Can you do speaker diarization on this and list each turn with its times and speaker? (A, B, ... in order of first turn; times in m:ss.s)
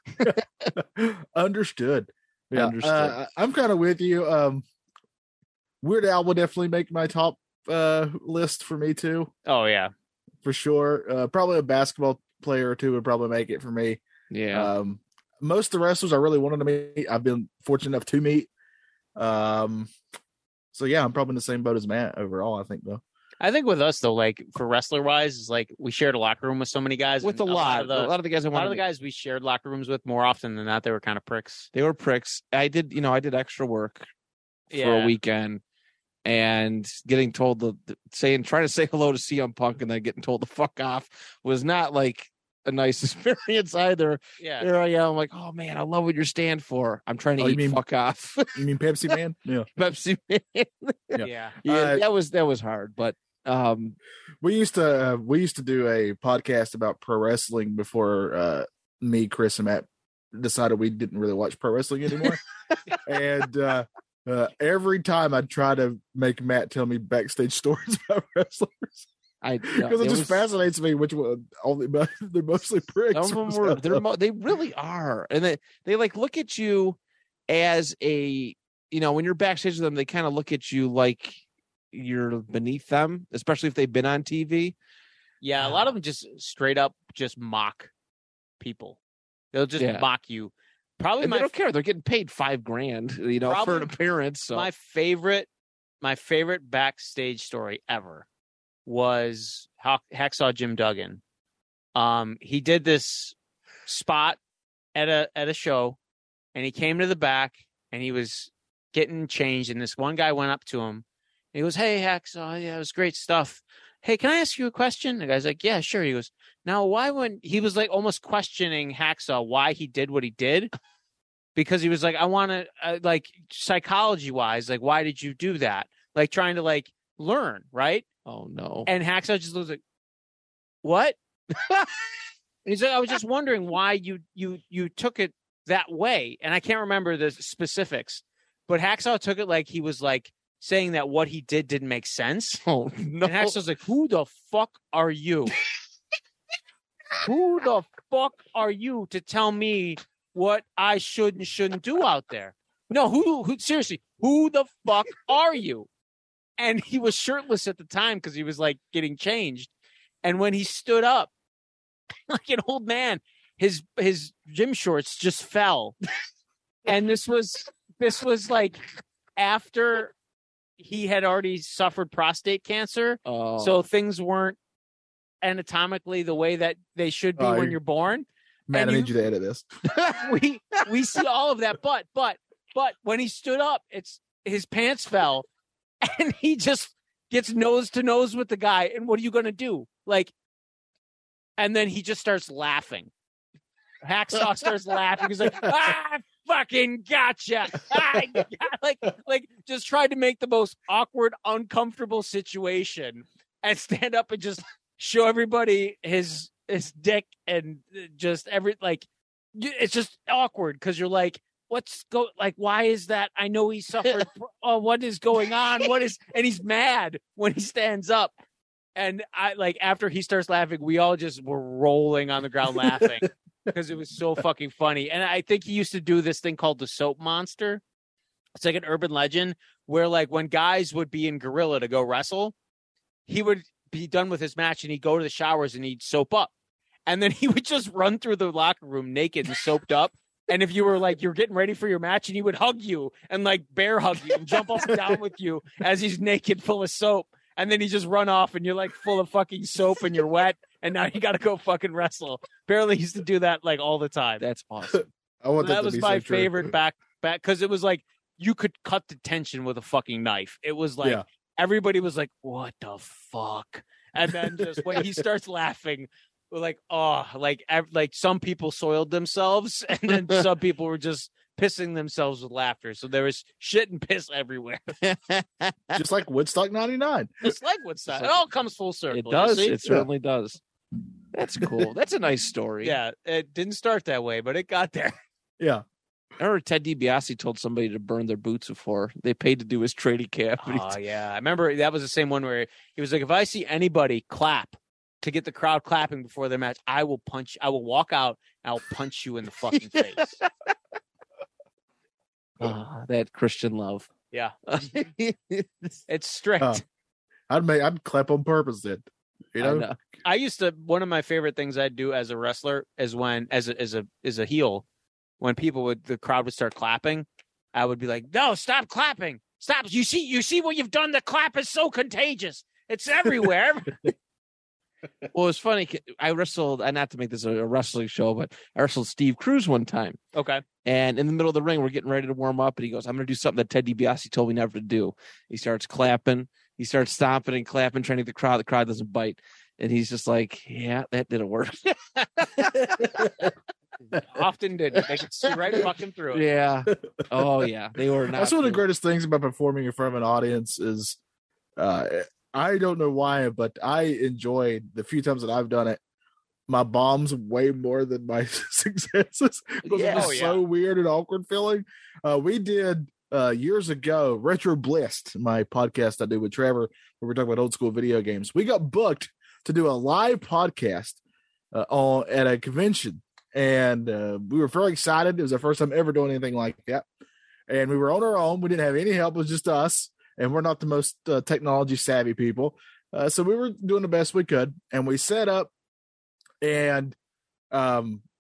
0:00.2-0:04.6 A
0:02.5-0:03.2 B
0:05.8-0:09.3 A
0:09.4-0:09.9 C
0:10.4-0:18.5 A
0:14.3-0:14.7 B
0:19.2-0:19.9 A
0:20.7-0:23.0 A
0:23.4-0:31.7 C
0:27.2-0:28.8 B
0:31.7-0:34.1 B
0:34.7-0:35.1 C
0:34.7-0:35.6 B
0:36.2-0:49.2 B
0:44.4-0:44.7 C
0:47.4-0:47.8 A
0:48.5-0:49.6 A
0:49.7-0:54.0 B
0:51.1-0:52.0 A
0:51.2-0:51.6 C
0:54.4-1:02.4 A
1:03.0-1:09.1 A
1:09.4-1:10.4 B
1:09.7-1:14.0 A
1:13.1-1:17.0 B
1:17.5-1:24.7 B
1:25.4-1:27.9 C
1:28.6-1:29.0 C
1:29.5-1:31.5 C
1:29.8-1:30.0 B
1:31.2-1:34.7 B
1:33.4-1:33.9 C
1:34.5-1:35.5 C
1:36.0-1:38.2 C
1:38.8-1:41.2 C
1:42.0-1:43.3 C
1:43.9-1:44.4 C
1:44.9-1:46.0 C
1:46.5-2:00.7 C
2:01.6-2:08.0 C
2:08.2-2:08.9 B
2:08.9-2:09.8 C
2:10.8-2:11.2 C
2:12.6-2:22.6 C
2:22.6-2:23.6 B
2:23.2-2:25.5 C
2:27.2-2:35.9 C
2:36.6-2:39.7 C
2:40.2-2:41.3 C
2:42.3-2:45.9 C
2:46.8-2:48.8 C
2:49.4-2:50.1 C
2:50.8-2:54.6 C
2:53.2-2:53.8 B
2:55.4-2:59.1 C
2:57.4-2:57.8 A
2:58.7-2:59.6 A
3:00.0-3:05.4 C
3:06.0-3:10.3 C
3:11.6-3:13.1 C
3:14.0-3:38.3 C
3:39.0-3:47.8 C
3:42.8-3:43.1 A
3:48.5-3:52.5 C
3:53.3-3:56.5 C
3:57.1-4:14.4 C
4:14.4-4:15.0 B
4:14.9-4:16.7 A
4:15.6-4:34.9 C
4:24.8-4:25.1 A
4:35.0-4:36.0 B
4:35.9-4:37.5 A
4:37.4-4:39.8 C
4:39.1-4:40.6 B
4:41.3-4:43.0 B
4:42.8-4:45.2 C
4:46.4-4:50.9 B
4:50.6-5:00.4 C
4:59.7-5:00.5 B
5:02.6-5:04.1 B
5:04.7-5:06.0 B
5:06.1-5:06.8 C
5:07.5-5:09.9 A
5:09.6-5:10.0 B
5:10.2-5:14.8 C
5:15.4-5:24.1 C
5:25.3-5:30.2 B
5:30.3-5:30.6 C
5:30.8-5:43.3 B
5:43.0-5:43.5 A
5:44.1-5:46.4 C
5:46.3-5:48.8 B
5:48.3-5:51.2 A
5:51.8-5:56.0 A
5:56.7-6:11.2 A
5:59.8-6:00.5 B
6:00.0-6:00.6 C
6:11.7-6:17.0 A
6:17.7-6:25.7 A
6:26.6-6:27.1 A
6:27.7-6:28.2 A